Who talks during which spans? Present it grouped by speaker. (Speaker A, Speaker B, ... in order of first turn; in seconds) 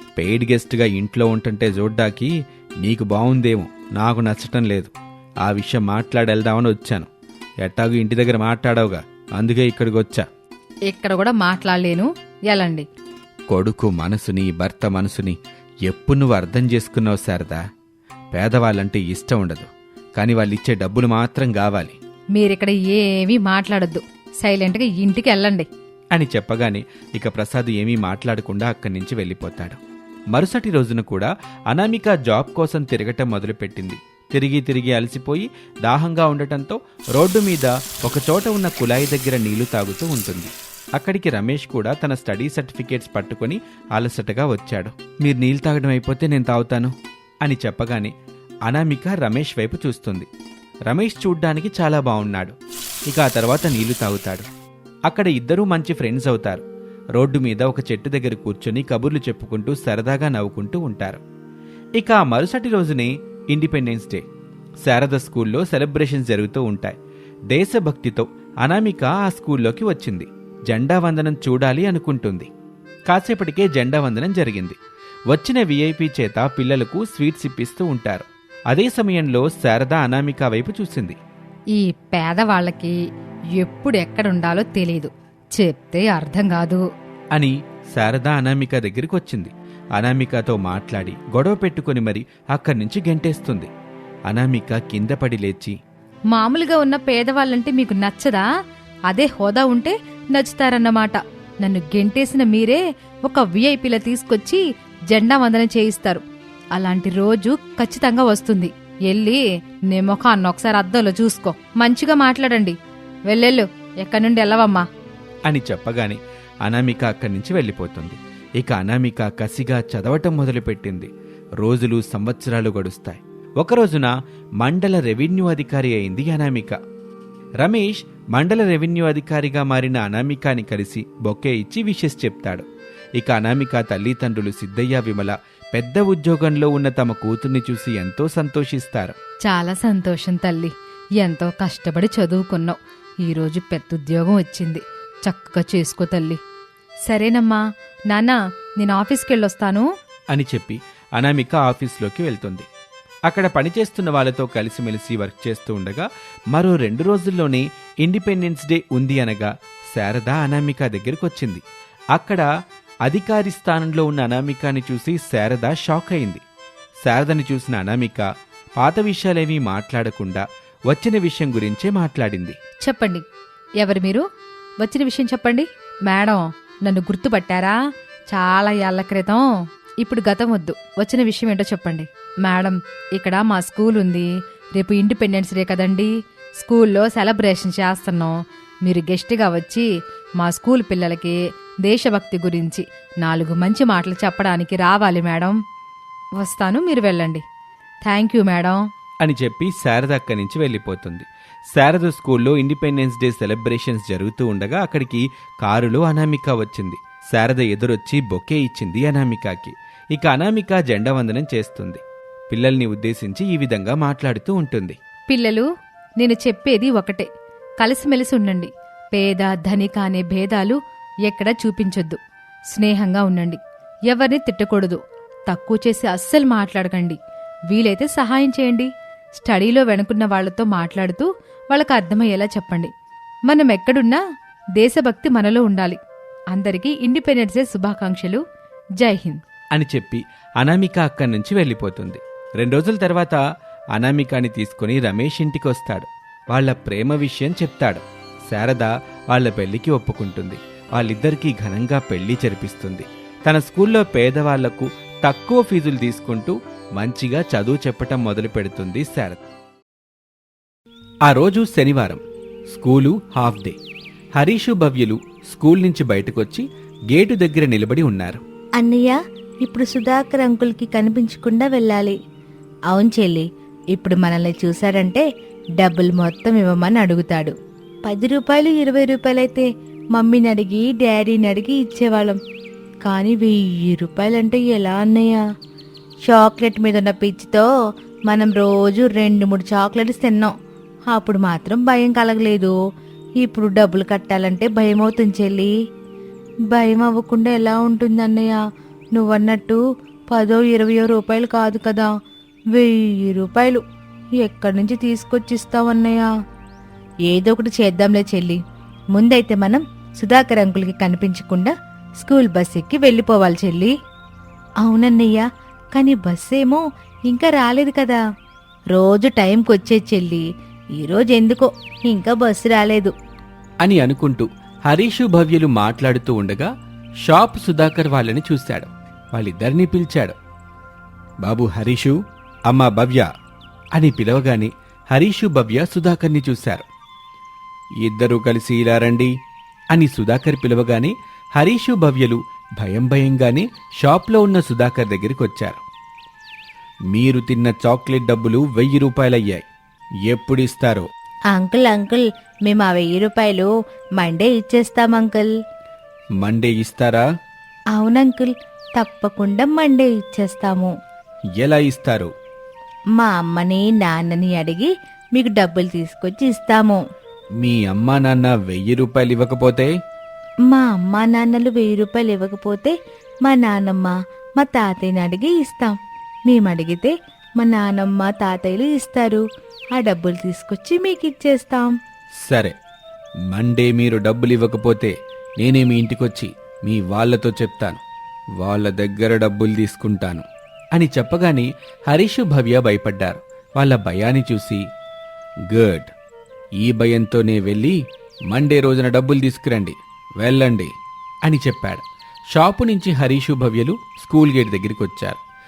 Speaker A: 0.2-4.9, 5.4-7.1, 7.6-10.3, 13.5-17.6, 18.3-22.0, 26.1-29.8, 30.3-48.1, 48.7-50.3, 50.9-52.5, 53.1-54.5, 55.1-56.6, 57.2-61.2, 62.0-64.3, 64.8-67.0, 67.5-72.5, 73.1-74.8, 75.3-81.2, 87.3-93.7, 94.3-95.8, 115.5-121.1, 121.6-126.8, 127.6-132.7, 133.2-139.2, 150.3-152.7, 153.3-161.6, 162.1-162.5, 163.1-166.4, 167.0-168.3, 168.8-172.6, 199.2-215.0, 239.7-243.4, 243.9-259.4, 261.3-263.8, 264.4-268.4, 323.8-326.7, 327.2-330.4, 331.4-333.3, 333.9-336.9, 338.0-339.3, 339.9-345.8, 347.1-349.6, 350.3-351.1, 356.4-357.2, 361.6-362.3, 367.6-369.9, 382.4-382.7, 383.5-388.0, 388.6-394.8, 395.7-396.1, 396.8-398.0, 398.5-400.9, 401.4-405.4
Speaker B: 10.9-12.8, 22.4-25.7, 81.7-83.0, 83.6-86.8, 96.3-98.4, 99.1-106.2, 106.8-112.8, 113.3-114.8, 139.5-146.4, 147.1-149.9, 172.8-173.2, 173.8-174.2, 174.8-177.8, 178.3-179.4, 180.0-189.9, 190.4-195.6, 196.4-197.4, 198.0-198.8, 215.3-215.7, 216.2-217.3, 217.8-222.2, 222.7-227.2, 227.7-232.9, 233.5-234.2, 234.8-236.0, 236.5-238.4, 239.0-239.4
Speaker C: 268.8-272.2, 272.9-275.2, 275.8-277.5, 278.1-282.4, 283.1-285.4, 286.3-287.7, 288.3-290.5, 291.1-292.8, 293.4-295.7, 296.7-298.6, 299.1-302.1, 302.7-303.8, 304.4-306.3, 307.3-308.6, 309.1-313.9, 314.8-315.4, 315.9-318.2, 318.9-320.4, 321.0-323.1, 351.5-355.5, 357.9-360.9, 363.2-367.0, 370.7-376.0, 376.5-379.4, 379.9-381.9